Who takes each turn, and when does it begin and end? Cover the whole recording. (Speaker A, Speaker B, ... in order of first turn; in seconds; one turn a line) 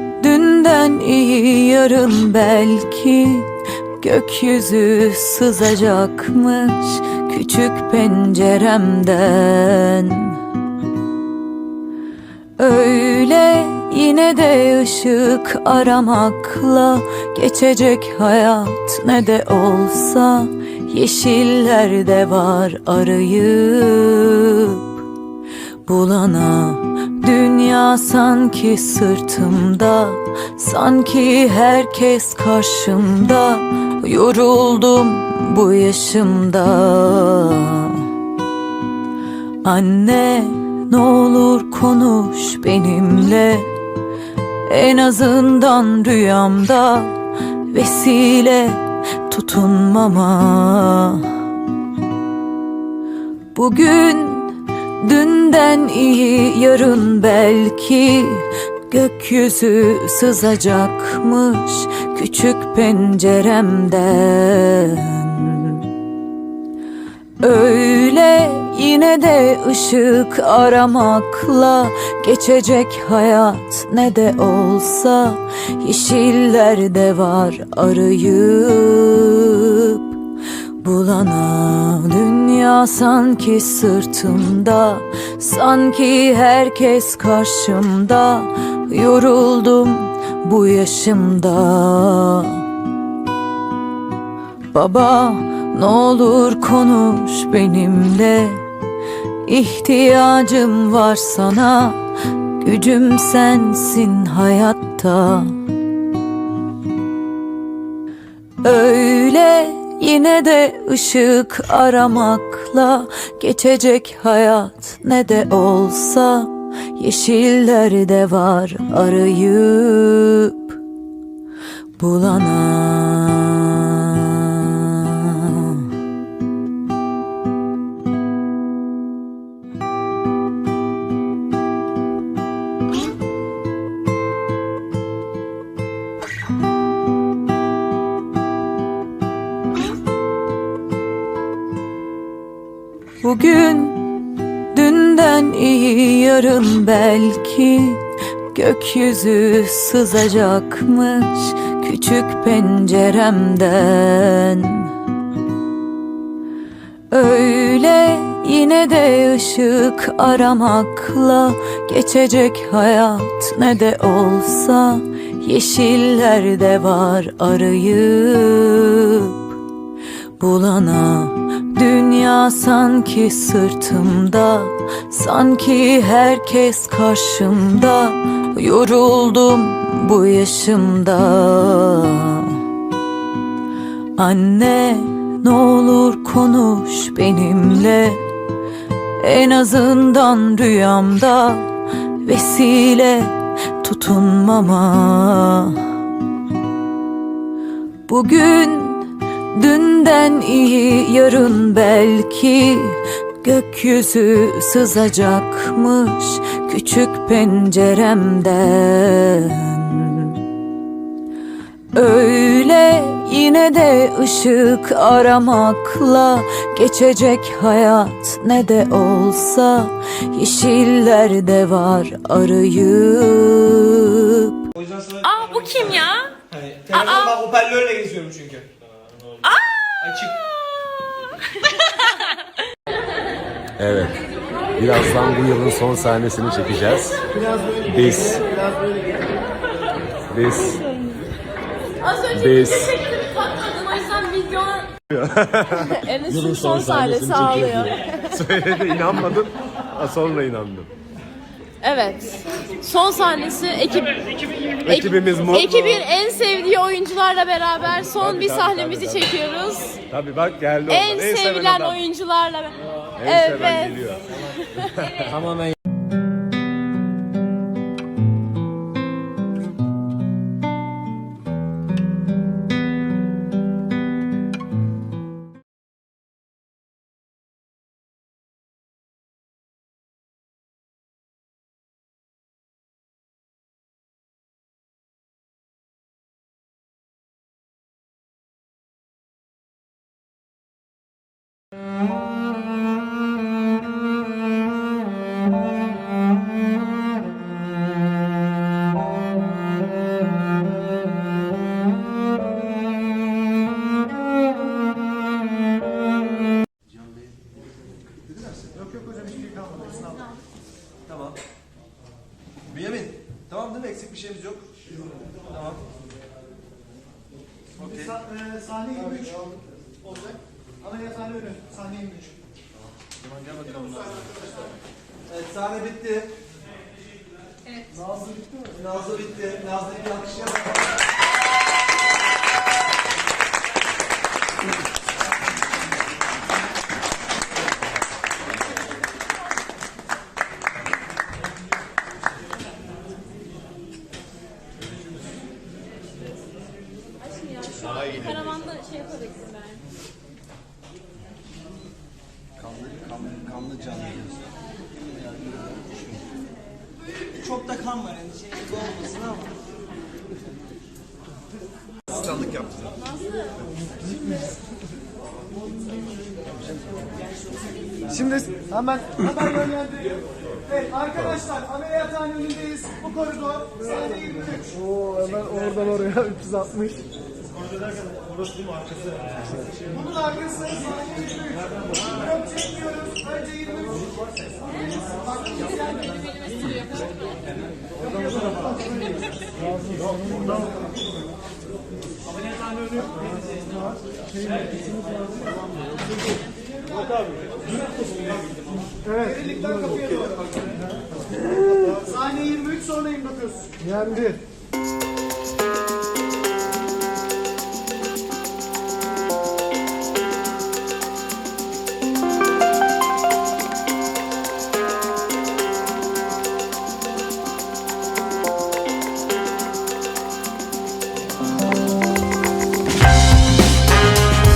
Speaker A: 0.2-10.4
Speaker A: 12.6-25.0
Speaker A: 25.8-38.1
Speaker A: 39.6-43.7
Speaker A: 44.6-47.1
Speaker A: 47.7-51.4
Speaker A: 53.5-65.9
Speaker A: 67.4-80.2
Speaker A: 80.8-92.7
Speaker A: 94.7-98.6
Speaker A: 99.4-105.6
Speaker A: 108.6-120.8
Speaker A: 122.0-125.9
Speaker A: 143.2-144.0
Speaker A: 144.7-154.9
Speaker A: 157.1-169.6
Speaker A: 170.4-182.6
Speaker A: 184.2-188.2
Speaker A: 189.2-191.7
Speaker A: 192.2-196.0
Speaker A: 198.1-210.4
Speaker A: 211.9-224.7
Speaker B: 224.8-228.7
Speaker C: 225.2-226.3
Speaker C: 226.9-227.4
Speaker B: 230.0-230.4
Speaker D: 233.8-234.2
Speaker D: 234.8-237.2
Speaker D: 237.8-238.5
Speaker D: 240.3-240.8
Speaker C: 242.1-244.9
Speaker D: 242.3-242.9
Speaker D: 245.1-250.9
Speaker C: 245.9-248.2
Speaker C: 251.8-260.0
Speaker D: 254.8-256.1
Speaker D: 258.0-259.3
Speaker D: 260.1-262.0
Speaker C: 260.9-264.1
Speaker D: 263.2-264.2
Speaker C: 264.8-265.1
Speaker D: 264.8-265.8
Speaker B: 308.3-308.9
Speaker E: 309.4-309.9
Speaker B: 311.1-311.4
Speaker B: 312.7-314.7
Speaker B: 315.5-315.8
Speaker B: 317.8-318.2
Speaker E: 318.1-319.1
Speaker E: 320.8-322.3
Speaker B: 323.5-324.0
Speaker B: 325.3-326.3
Speaker B: 328.6-330.8
Speaker C: 347.7-349.7
Speaker B: 352.6-354.3
Speaker B: 355.2-356.2
Speaker B: 357.4-359.5
Speaker B: 362.1-362.9
Speaker E: 368.4-370.1
Speaker E: 370.7-374.7
Speaker E: 375.6-376.9
Speaker E: 380.0-381.4
Speaker E: 382.3-384.0
Speaker E: 385.5-385.8
Speaker E: 399.2-400.2
Speaker B: 399.4-400.4
Speaker E: 402.0-403.9